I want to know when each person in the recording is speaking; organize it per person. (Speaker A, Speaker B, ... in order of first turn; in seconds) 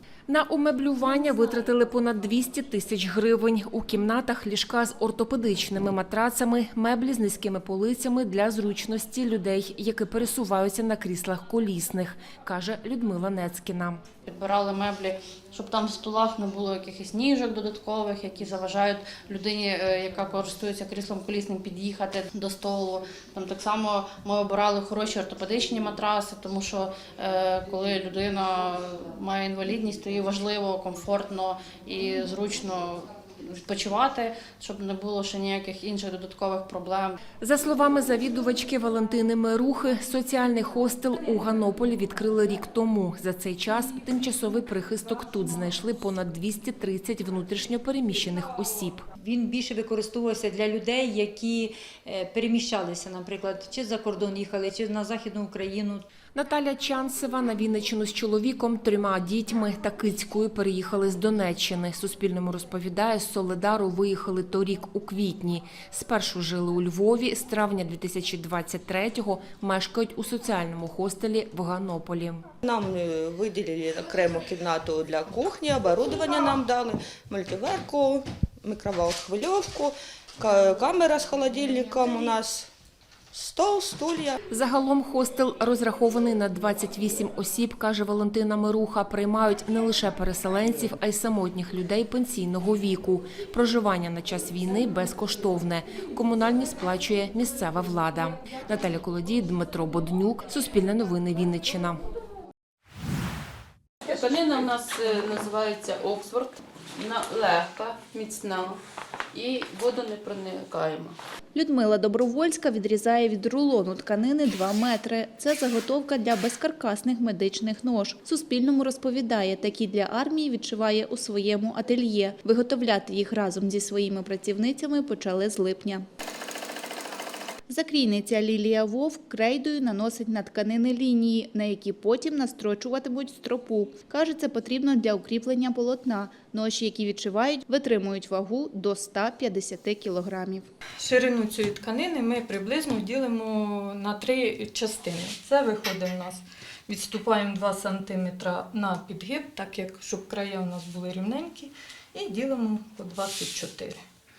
Speaker A: 0.3-14.0, 37.4-49.0, 56.3-72.4, 84.5-102.0
Speaker B: 14.3-37.2
Speaker C: 49.2-56.0
Speaker D: 72.6-82.7, 83.3-84.4
Speaker E: 104.1-108.8, 109.3-111.2
Speaker F: 111.5-126.0, 127.7-140.7
Speaker G: 141.0-154.0